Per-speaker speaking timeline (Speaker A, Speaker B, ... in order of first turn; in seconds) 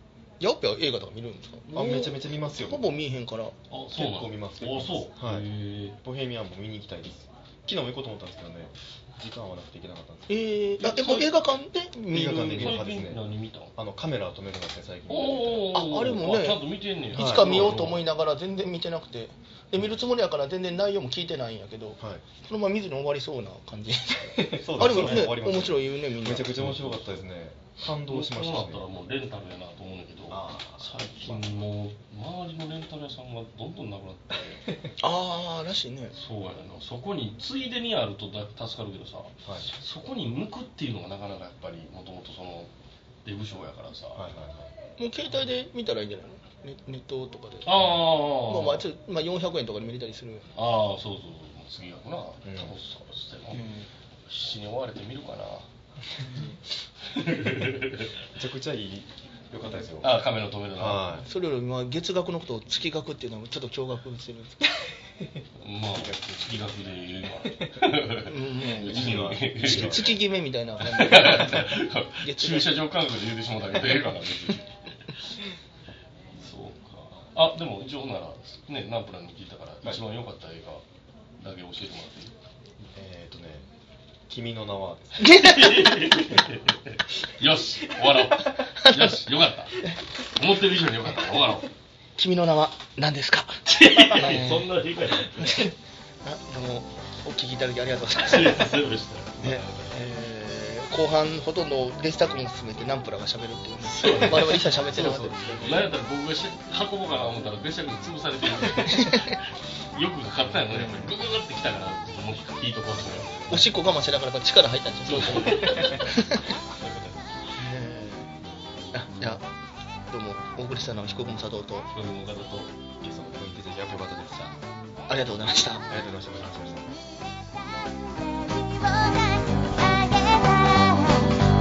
Speaker A: 0.4-3.5, 10.3-12.8, 15.7-26.7, 35.0-36.1, 45.0-47.9, 48.5-50.5, 53.5-53.9, 56.3-56.6, 61.2-64.7, 68.2-72.8, 85.2-86.0, 92.2-94.7, 95.3-98.9, 99.4-105.9, 108.9-109.3, 110.7-111.1, 113.5-116.5, 117.6-118.3, 118.9-119.5, 120.1-121.9, 125.1-125.9
Speaker B: 1.7-2.9, 4.0-5.5, 6.0-10.4, 12.1-13.2, 13.8-15.7, 17.1-17.6, 22.0-22.2, 24.5-28.8, 30.3-31.4, 39.5-39.7, 44.1-44.7, 52.5-52.8, 58.4-60.2, 60.8-61.2, 65.9-66.6, 68.8-70.2, 82.8-83.7, 84.3-85.3, 113.2-113.6, 123.0-124.6, 125.9-127.0
Speaker C: 3.7-6.0, 10.8-11.4, 12.2-13.7, 15.1-18.0, 24.9-25.3, 26.4-27.2, 28.0-34.7, 36.1-42.7, 43.2-44.2, 47.6-48.9, 50.5-53.6, 54.3-55.6, 57.1-58.1, 60.0-61.2, 65.6-70.2, 70.8-74.7, 76.3-80.8, 81.4-82.3, 85.4-91.7, 93.7-95.7, 98.3-100.0, 103.8-113.5, 115.0-116.1, 116.8-117.4, 121.9-122.7